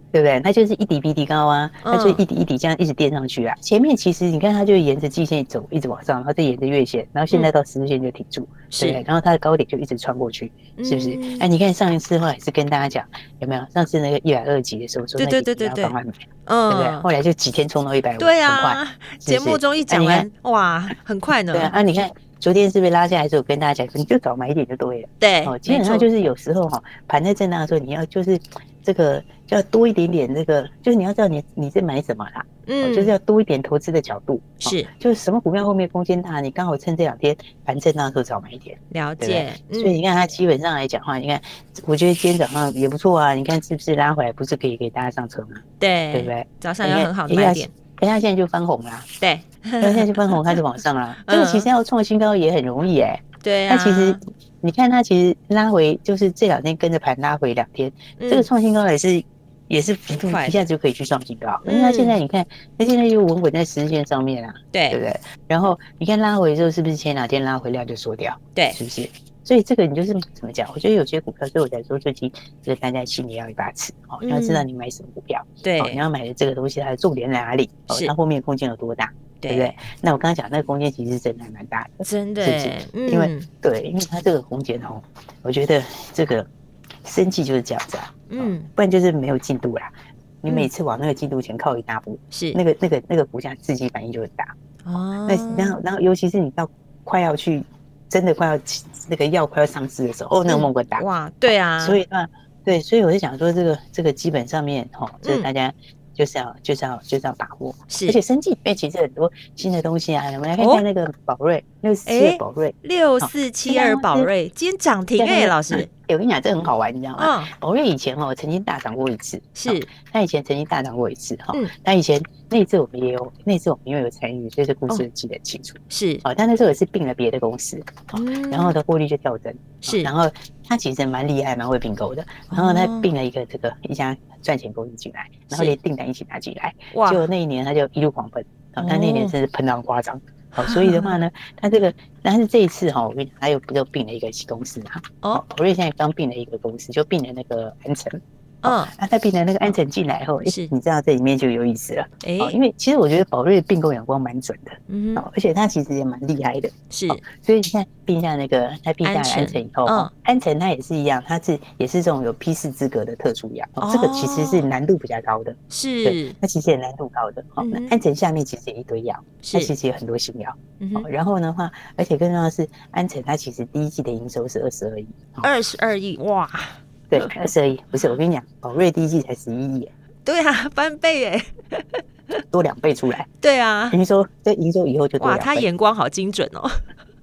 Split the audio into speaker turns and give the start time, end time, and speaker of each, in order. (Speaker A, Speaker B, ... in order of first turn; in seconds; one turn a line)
Speaker A: 0.1-20.3
Speaker B: 1.8-2.2
Speaker B: 8.7-9.0
Speaker B: 10.8-11.4
Speaker B: 15.2-15.9
Speaker B: 16.5-17.1
Speaker B: 18.2-21.7
Speaker A: 21.5-49.1
Speaker B: 25.2-26.1
Speaker B: 32.6-33.1
Speaker B: 34.6-34.9
Speaker B: 38.9-39.9
Speaker B: 45.8-47.7
Speaker B: 49.2-50.6
Speaker A: 49.8-86.5
Speaker B: 51.2-51.7
Speaker B: 53.4-54.2
Speaker B: 58.2-58.5
Speaker B: 60.3-60.6
Speaker B: 61.6-62.2
Speaker B: 64.7-65.0
Speaker B: 74.2-74.7
Speaker B: 75.6-76.0
Speaker B: 79.4-79.7
Speaker B: 82.0-83.5
Speaker A: 87.0-94.5
Speaker B: 88.3-88.7
Speaker B: 92.3-92.6
Speaker B: 94.8-95.8
Speaker A: 95.2-101.0
Speaker B: 100.5-102.0
Speaker A: 101.8-114.3
Speaker B: 105.2-105.5
Speaker B: 107.9-108.2
Speaker B: 112.0-115.9
Speaker A: 115.2-175.5
Speaker B: 117.2-117.5
Speaker B: 119.5-119.9
Speaker B: 125.9-126.2
Speaker B: 128.1-128.8
Speaker B: 129.8-130.1
Speaker B: 132.5-133.1
Speaker B: 135.5-135.8
Speaker B: 136.9-137.3
Speaker B: 138.8-139.3
Speaker B: 140.6-141.2
Speaker B: 148.6-148.9
Speaker B: 150.4-150.7
Speaker B: 152.2-152.6
Speaker B: 154.9-155.2
Speaker B: 156.9-157.2
Speaker B: 159.0-160.1
Speaker B: 163.8-164.6
Speaker B: 165.7-166.4
Speaker B: 167.6-167.9
Speaker B: 169.4-169.7
Speaker B: 170.8-171.1
Speaker B: 175.4-177.4
Speaker A: 177.1-179.9
Speaker B: 180.2-182.4
Speaker A: 182.5-183.3
Speaker B: 183.4-184.0
Speaker A: 183.9-185.7
Speaker B: 185.2-186.8